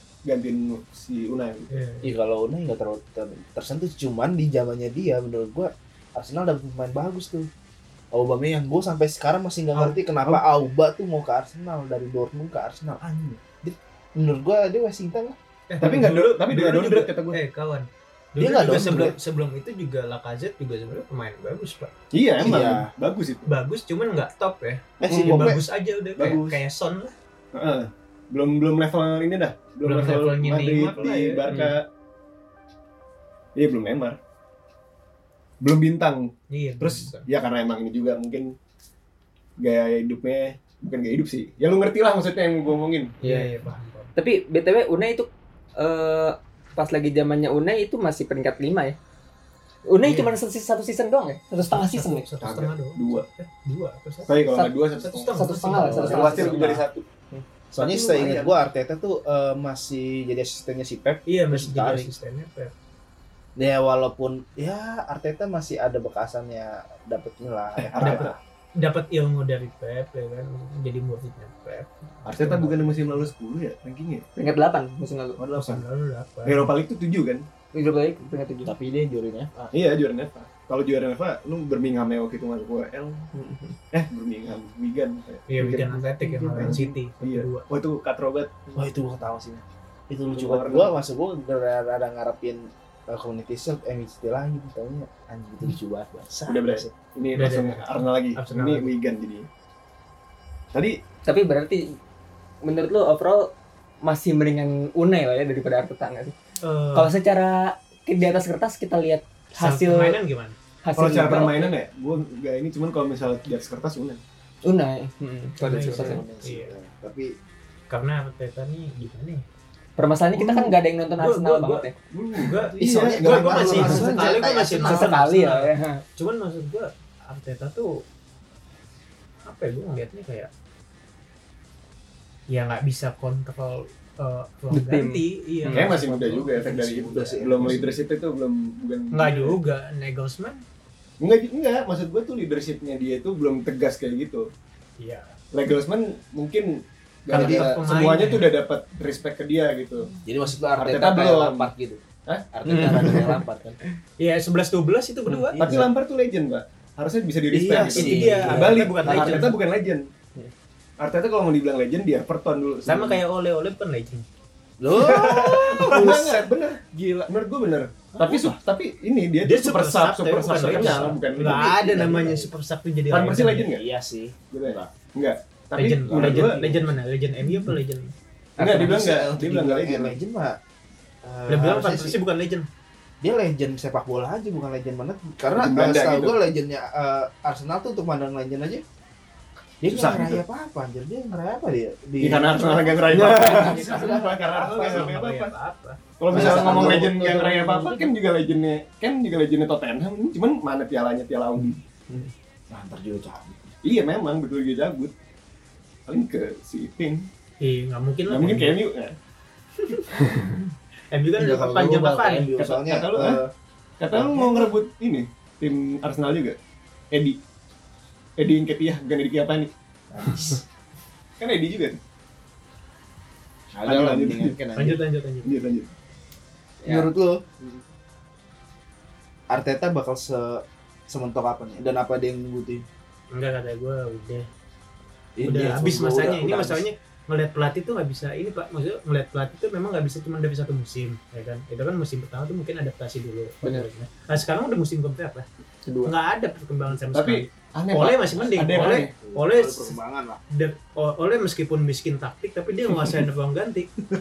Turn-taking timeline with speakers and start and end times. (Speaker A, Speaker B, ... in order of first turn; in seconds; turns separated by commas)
Speaker A: 0.2-1.8, Speaker B: 1.7-2.1, Speaker C: 2.0-7.5, Speaker C: 8.1-15.4, Speaker B: 9.7-10.4, Speaker B: 15.7-21.9, Speaker A: 15.8-17.4, Speaker C: 18.4-19.1, Speaker A: 22.1-23.5, Speaker C: 22.4-22.9, Speaker B: 23.5-27.1, Speaker C: 25.0-25.6, Speaker A: 25.1-25.6, Speaker A: 26.2-26.5, Speaker A: 27.5-31.9, Speaker B: 29.8-31.5, Speaker D: 31.5-31.8, Speaker A: 33.5-34.2, Speaker A: 35.6-38.5, Speaker B: 36.5-37.3, Speaker A: 39.6-43.1, Speaker B: 43.2-44.1, Speaker D: 43.2-49.0, Speaker D: 49.9-52.2, Speaker B: 50.0-50.4, Speaker B: 51.7-54.4, Speaker A: 52.4-53.2, Speaker A: 54.2-57.0, Speaker B: 55.0-56.8, Speaker D: 55.3-56.8, Speaker C: 55.9-56.2, Speaker C: 57.7-62.1, Speaker A: 57.7-58.5, Speaker B: 61.3-62.7, Speaker C: 63.6-68.4, Speaker A: 67.8-68.3, Speaker B: 68.0-73.3, Speaker A: 72.2-74.2, Speaker D: 74.3-75.4, Speaker C: 75.4-75.8, Speaker B: 75.5-76.7, Speaker A: 76.4-77.5, Speaker D: 77.7-78.7, Speaker C: 78.6-79.7, Speaker A: 79.7-83.3, Speaker D: 83.3-83.8, Speaker A: 83.9-85.5, Speaker B: 85.5-87.7, Speaker D: 85.6-86.7, Speaker C: 86.2-86.9, Speaker A: 86.6-88.5, Speaker C: 88.7-96.9, Speaker A: 90.3-91.0, Speaker A: 96.5-99.5, Speaker B: 97.3-98.9, Speaker D: 101.2-102.0, Speaker D: 102.6-103.5, Speaker D: 104.0-106.3, Speaker B: 106.6-107.1, Speaker D: 106.9-110.2, Speaker B: 109.6-110.5, Speaker D: 110.8-111.7, Speaker A: 111.0-114.2, Speaker D: 114.6-116.2, Speaker B: 115.6-116.7, Speaker C: 115.8-117.3, Speaker B: 117.9-119.4, Speaker D: 120.0-122.0, Speaker B: 120.4-128.0, Speaker A: 122.1-124.3, Speaker C: 122.8-125.1, Speaker D: 124.8-126.0, Speaker B: 129.4-130.5, Speaker B: 132.5-136.8, Speaker D: 134.7-135.9, Speaker A: 135.7-139.6, Speaker C: 136.6-138.0, Speaker B: 139.1-140.6, Speaker A: 141.2-144.5, Speaker B: 145.0-145.3, Speaker A: 145.5-150.1, Speaker B: 147.3-148.5, Speaker C: 147.3-147.7, Speaker C: 150.2-153.8, Speaker A: 150.8-151.7, Speaker A: 152.2-153.2, Speaker D: 152.7-153.4, Speaker B: 154.2-155.6, Speaker C: 155.3-155.9, Speaker A: 155.6-160.1, Speaker C: 157.5-159.5, Speaker B: 157.9-159.5, Speaker A: 161.0-163.2, Speaker B: 162.9-164.2, Speaker C: 164.8-166.5, Speaker B: 164.9-166.2, Speaker A: 165.7-172.1, Speaker B: 168.2-168.4, Speaker B: 169.4-173.7, Speaker C: 170.6-172.5, Speaker A: 173.1-173.8, Speaker C: 173.6-174.9, Speaker A: 174.5-176.9, Speaker B: 175.7-178.1, Speaker C: 176.1-176.8, Speaker D: 178.6-179.0, Speaker A: 178.6-180.2, Speaker C: 178.7-180.6, Speaker C: 181.2-182.2, Speaker B: 181.5-182.7, Speaker C: 183.2-188.8, Speaker A: 185.5-186.3, Speaker C: 189.8-195.3, Speaker A: 189.8-190.4, Speaker A: 192.2-195.5, Speaker D: 193.1-193.8, Speaker B: 193.4-196.0, Speaker A: 196.2-201.8, Speaker C: 196.3-198.1, Speaker D: 196.3-197.2, Speaker C: 202.7-203.7, Speaker A: 203.8-205.1, Speaker A: 206.1-207.3, Speaker B: 207.6-208.8, Speaker A: 208.3-209.1, Speaker B: 209.8-210.4, Speaker B: 211.1-212.5, Speaker C: 211.4-213.5, Speaker A: 212.6-213.4, Speaker A: 214.0-216.6, Speaker C: 214.1-214.7, Speaker A: 217.1-217.4, Speaker A: 218.4-219.7, Speaker C: 220.1-220.6, Speaker A: 221.4-222.0, Speaker C: 223.7-225.0, Speaker A: 223.8-224.6, Speaker B: 224.8-225.6, Speaker A: 225.4-225.9, Speaker C: 226.8-227.4, Speaker C: 229.5-232.8, Speaker B: 233.3-234.5, Speaker C: 235.4-236.8, Speaker B: 235.4-245.4, Speaker D: 245.8-246.1, Speaker B: 246.0-250.0, Speaker A: 247.1-249.1, Speaker C: 248.8-250.4, Speaker B: 250.5-253.9